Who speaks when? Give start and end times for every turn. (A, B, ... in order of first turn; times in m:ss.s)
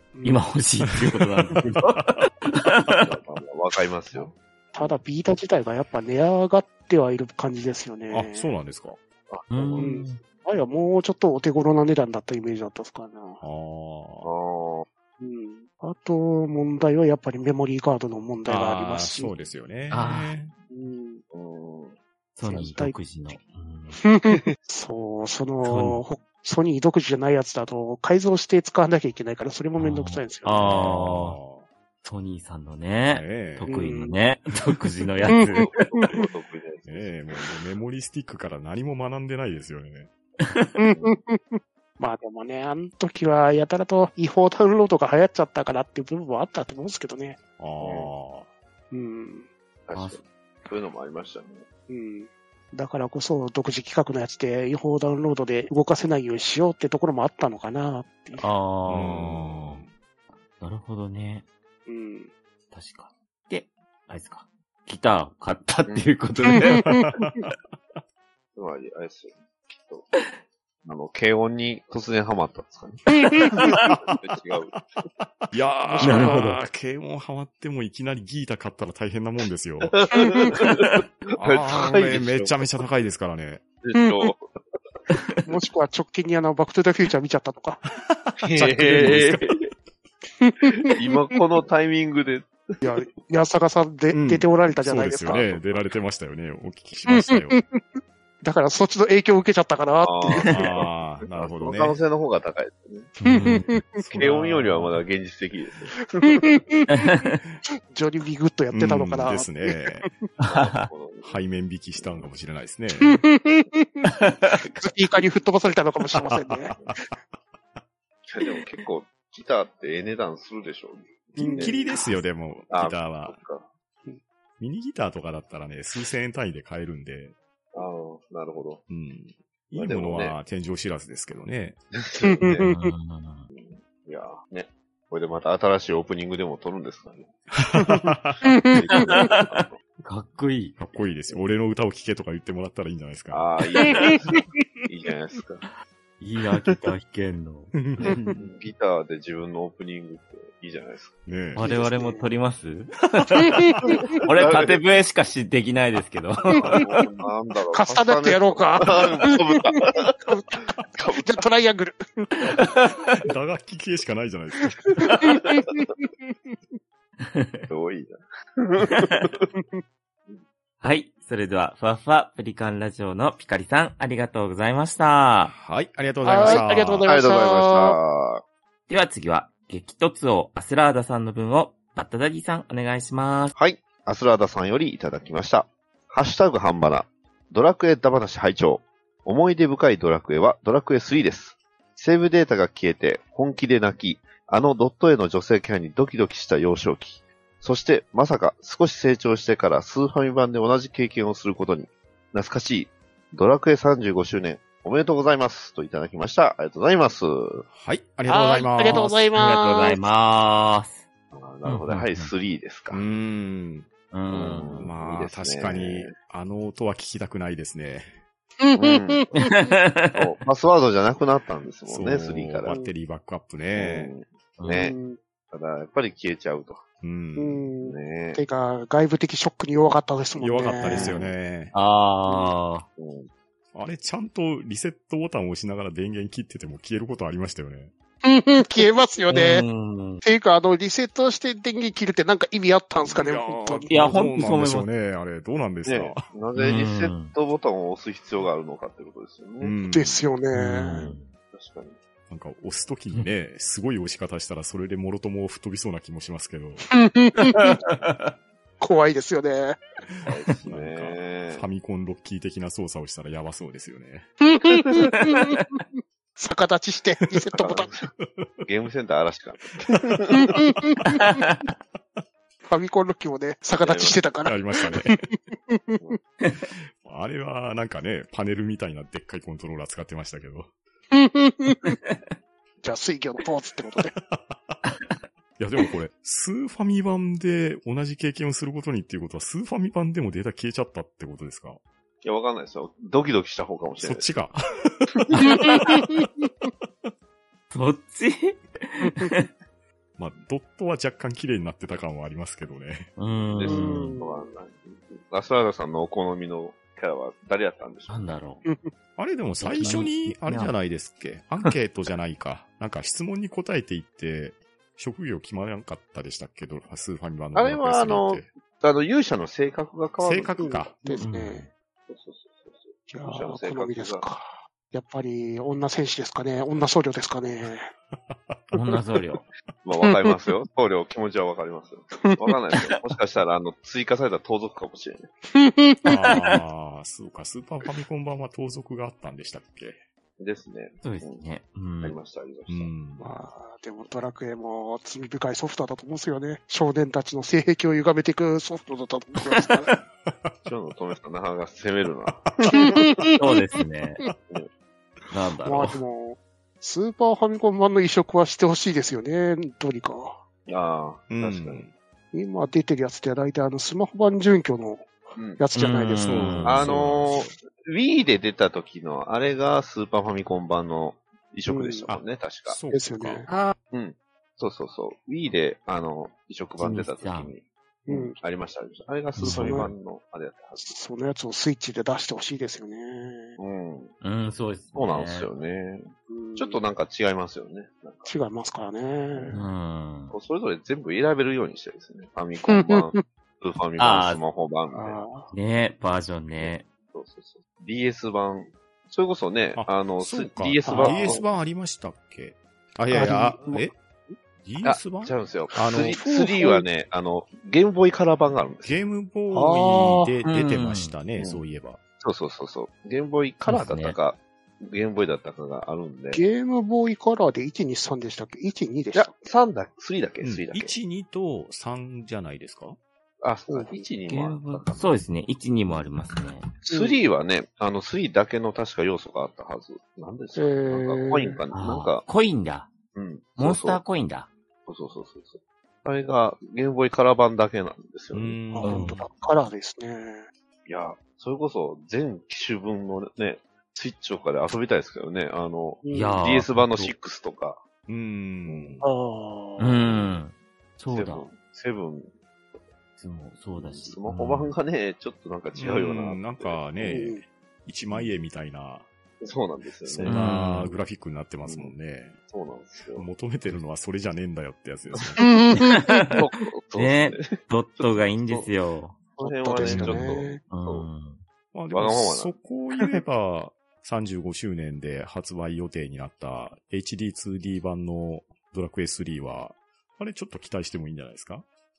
0:00.1-0:00.4 A
0:00.2-0:03.0 B
0:01.0-0:02.3 C
0:03.0-0:04.9 D
0:04.7-0:08.5 A
0:08.1-0:09.0 C
0:09.3-0:10.1 D
0:09.5-0:10.2 B
0:09.8-0:13.4 A
0:13.4-0:14.3 C
0:14.2-0:14.8 D
0:15.2-0:19.3 A
0:18.5-0:20.5 C
0:19.9-0:20.3 B
0:20.7-0:21.2 A
0:21.3-0:22.0 D
0:22.4-0:24.0 B
0:22.4-0:23.0 A
0:24.0-0:30.7 A
0:25.6-0:26.0 B
0:29.8-0:31.4 B
0:30.6-0:31.6 C
0:32.0-0:35.9 B
0:33.1-0:33.7 C
0:33.6-0:34.2 A
0:35.3-0:36.3 A
0:35.5-0:37.2 D
0:36.8-0:40.1 C
0:40.4-0:40.7 B
0:40.8-0:47.4 A
0:40.9-0:41.2 D
0:47.6-0:48.5 C
0:47.8-0:48.1 D
0:48.9-0:49.5 A
0:49.9-0:51.6 D
0:49.9-0:50.2 B
0:51.9-0:58.4 A
0:58.4-0:59.8 B
0:58.9-0:59.9 C
1:00.6-1:01.4 B
1:01.9-1:02.3 A
1:02.7-1:07.1 B
1:06.4-1:07.3 A
1:07.0-1:08.0 C
1:08.5-1:10.1 D
1:10.8-1:14.7 D
1:13.1-1:13.8 A
1:13.8-1:14.2 C
1:15.2-1:19.9 C
1:15.9-1:16.5 A
1:16.0-1:16.6 B
1:19.8-1:22.7 D
1:20.1-1:20.6 A
1:20.7-1:20.9 B
1:21.4-1:23.6 C
1:23.8-1:24.5 D
1:24.0-1:24.3 A
1:25.4-1:27.8 A
1:28.1-1:29.6 C
1:28.4-1:29.6 D
1:30.4-1:31.1 A
1:30.8-1:32.8 D
1:32.8-1:35.5 A
1:34.1-1:37.6 C
1:35.3-1:35.8 D
1:37.1-1:37.8 A
1:38.4-1:40.6 A
1:40.0-1:43.1 D
1:40.5-1:42.0 C
1:43.2-1:43.8 B
1:43.2-1:44.2 A
1:44.0-1:45.0 C
1:44.1-1:46.8 D
1:46.1-1:47.2 A
1:46.9-1:47.4 B
1:47.9-1:50.2 A
1:48.7-1:50.1 C
1:50.4-1:51.4 D
1:50.4-1:50.9 B
1:51.2-1:53.2 C
1:52.0-1:52.3 D
1:53.0-1:54.1 A
1:54.0-1:54.8 B
1:54.8-1:56.8 A
1:56.3-1:57.0 C
1:58.3-2:03.7 D
2:01.4-2:03.4 C
2:01.4-2:02.0 A
2:04.6-2:07.4 C
2:07.7-2:08.8 D
2:08.9-2:11.8 C
2:09.7-2:10.4 D
2:11.9-2:12.7 D
2:12.2-2:12.8 A
2:12.6-2:13.5 B
2:13.5-2:17.3 D
2:17.6-2:18.4 C
2:17.8-2:19.2 A
2:18.6-2:19.8 D
2:18.9-2:20.8 B
2:20.8-2:23.4 C
2:23.3-2:25.6 D
2:24.0-2:24.4 A
2:26.2-2:27.7 B
2:27.7-2:28.4 C
2:28.0-2:31.9 D
2:31.2-2:31.6 C
2:31.6-2:36.8 B
2:31.6-2:32.3 A
2:33.6-2:34.0 A
2:34.3-2:34.8 D
2:36.6-2:41.4 D
2:36.6-2:37.0 A
2:37.7-2:42.5 A
2:42.4-2:43.2 B
2:43.2-2:45.1 C
2:45.0-2:46.5 A
2:47.2-2:47.7 B
2:47.7-2:49.5 D
2:48.9-2:49.3 B
2:49.5-2:49.8 A
2:50.8-2:55.5 B
2:55.5-2:57.0 C
2:56.2-2:58.0 A
2:56.5-2:58.4 D
2:58.9-3:03.5 B
3:03.5-3:27.6 D
3:27.7-3:29.3 C
3:28.3-3:30.0 A
3:28.9-3:31.0 B
3:31.3-3:33.0 D
3:31.6-3:32.3 B
3:32.9-3:33.9 C
3:34.1-3:34.9 B
3:34.3-3:36.1 D
3:34.8-3:38.1 C
3:38.6-3:39.5 A
3:38.8-3:39.3 D
3:39.3-3:40.3 B
3:40.1-3:42.8 D
3:41.9-3:44.1 C
3:43.7-3:45.0 D
3:44.6-3:44.9 B
3:44.7-3:45.2 A
3:45.5-3:46.8 D
3:47.0-3:47.7 C
3:47.4-3:51.1 A
3:47.8-3:48.4 D
3:50.4-3:51.7 C
3:50.9-3:51.3 D
3:51.7-3:52.8 B
3:52.3-3:52.5 A
3:53.0-3:53.3 D
3:53.7-3:57.9 C
3:58.2-3:59.6 A
3:59.3-4:00.2 B
4:00.2-4:04.2 A
4:03.1-4:06.2 C
4:03.9-4:04.9 B
4:05.8-4:09.8 D
4:06.5-4:07.3 B
4:09.6-4:10.2 C
4:09.9-4:11.1 A
4:10.5-4:11.3 B
4:11.5-4:12.0 D
4:12.3-4:16.8 C
4:16.9-4:17.8 A
4:17.5-4:18.3 B
4:18.8-4:19.8 A
4:20.2-4:21.6 D
4:20.6-4:24.3 C
4:24.5-4:27.9 A
4:25.1-4:25.5 B
4:27.6-4:28.1 D
4:28.2-4:28.6 C
4:28.6-4:30.5 D
4:29.9-4:31.2 C
4:30.3-4:31.4 A
4:31.3-4:31.6 B
4:32.7-4:36.2 A
4:33.8-4:34.2 D
4:34.4-4:35.2 C
4:37.0-4:40.7 C
4:41.1-4:42.0 A
4:42.8-4:44.1 A
4:44.2-4:44.8 C
4:44.8-4:45.1 B
4:45.6-4:51.8 C
4:52.2-4:54.3 D
4:54.0-4:57.1 C
4:55.4-4:56.5 A
4:57.7-4:59.5 B
4:59.0-4:59.3 A
5:00.2-5:03.1 C
5:03.2-5:04.1 B
5:03.5-5:08.3 D
5:03.6-5:04.4 A
5:08.1-5:08.6 B
5:08.6-5:08.9 A
5:09.2-5:18.5 C
5:09.6-5:10.7 B
5:17.5-5:20.8 D
5:20.2-5:21.0 C
5:20.6-5:21.7 A
5:21.1-5:21.7 B
5:22.1-5:24.3 D
5:23.1-5:27.9 A
5:28.1-5:28.8 C
5:28.7-5:29.4 B
5:29.8-5:35.3 D
5:35.5-5:36.3 A
5:36.0-5:40.0 C
5:40.4-5:41.4 D
5:41.0-5:42.2 B
5:42.0-5:42.9 D
5:42.7-5:43.3 C
5:43.2-5:49.9 A
5:49.6-5:50.0 B
5:50.2-5:50.5 C
5:50.6-5:52.8 D
5:52.3-5:53.1 C
5:52.7-5:53.5 A
5:53.4-5:54.2 B
5:55.3-5:56.0 B
5:55.6-6:00.4 A
6:00.7-6:01.8 D
6:01.3-6:01.9 C
6:02.3-6:06.6 A
6:05.4-6:05.6 D
6:05.7-6:06.9 B
6:06.2-6:07.5 C
6:06.6-6:12.8 D
6:11.7-6:12.1 A
6:12.1-6:13.5 C
6:12.9-6:13.7 A
6:13.9-6:21.0 D
6:16.8-6:17.5 B
6:18.1-6:18.4 A
6:19.4-6:19.9 B
6:19.4-6:19.9 A
6:20.8-6:23.6 A
6:23.6-6:24.1 D
6:24.2-6:25.5 B
6:24.9-6:28.3 D
6:26.3-6:26.8 A
6:28.2-6:29.6 A
6:29.3-6:29.6 D
6:29.5-6:30.3 B
6:30.3-6:35.2 D
6:32.7-6:33.2 A
6:34.0-6:34.4 B
6:34.9-6:35.5 A
6:35.5-6:36.8 B
6:36.5-6:41.4 D
6:39.7-6:43.9 C
6:40.8-6:41.4 A
6:43.1-6:43.8 A
6:44.6-6:46.2 C
6:44.8-6:49.0 D
6:46.1-6:46.8 A
6:48.8-6:52.0 C
6:49.6-6:50.1 A
6:50.4-6:51.1 B
6:52.2-6:56.4 D
6:53.7-6:54.2 B
6:56.3-6:59.4 A
6:59.1-7:00.9 D
7:00.4-7:03.0 C
7:03.4-7:05.1 D
7:03.7-7:04.0 A
7:04.3-7:06.7 B
7:06.8-7:12.2 D
7:06.9-7:07.2 A
7:10.6-7:11.6 A
7:11.7-7:12.9 B
7:13.1-7:14.0 D
7:13.6-7:14.5 B
7:14.9-7:18.6 D
7:18.3-7:19.1 C
7:18.7-7:20.5 A
7:18.8-7:19.2 B
7:20.9-7:27.8 D
7:26.0-7:26.5 A
7:26.1-7:27.1 B
7:28.1-7:29.1 C
7:28.6-7:29.0 D
7:29.0-7:30.2 A
7:29.8-7:31.5 B
7:31.1-7:32.3 D
7:33.2-7:34.7 B
7:33.8-7:37.2 D
7:35.8-7:39.0 C
7:37.1-7:37.4 A
7:39.4-7:40.4 D
7:40.0-7:42.4 C
7:40.2-7:40.9 B
7:41.6-7:41.9 D
7:42.5-7:43.3 D
7:43.1-7:45.5 C
7:45.4-7:46.0 A
7:45.7-7:46.4 B
7:46.3-7:48.7 D
7:46.9-7:49.2 B
7:49.4-7:50.6 A
7:49.4-7:51.1 D
7:49.8-7:50.3 C
7:50.7-7:51.4 B
7:51.7-8:01.6 C
7:51.9-7:52.6 D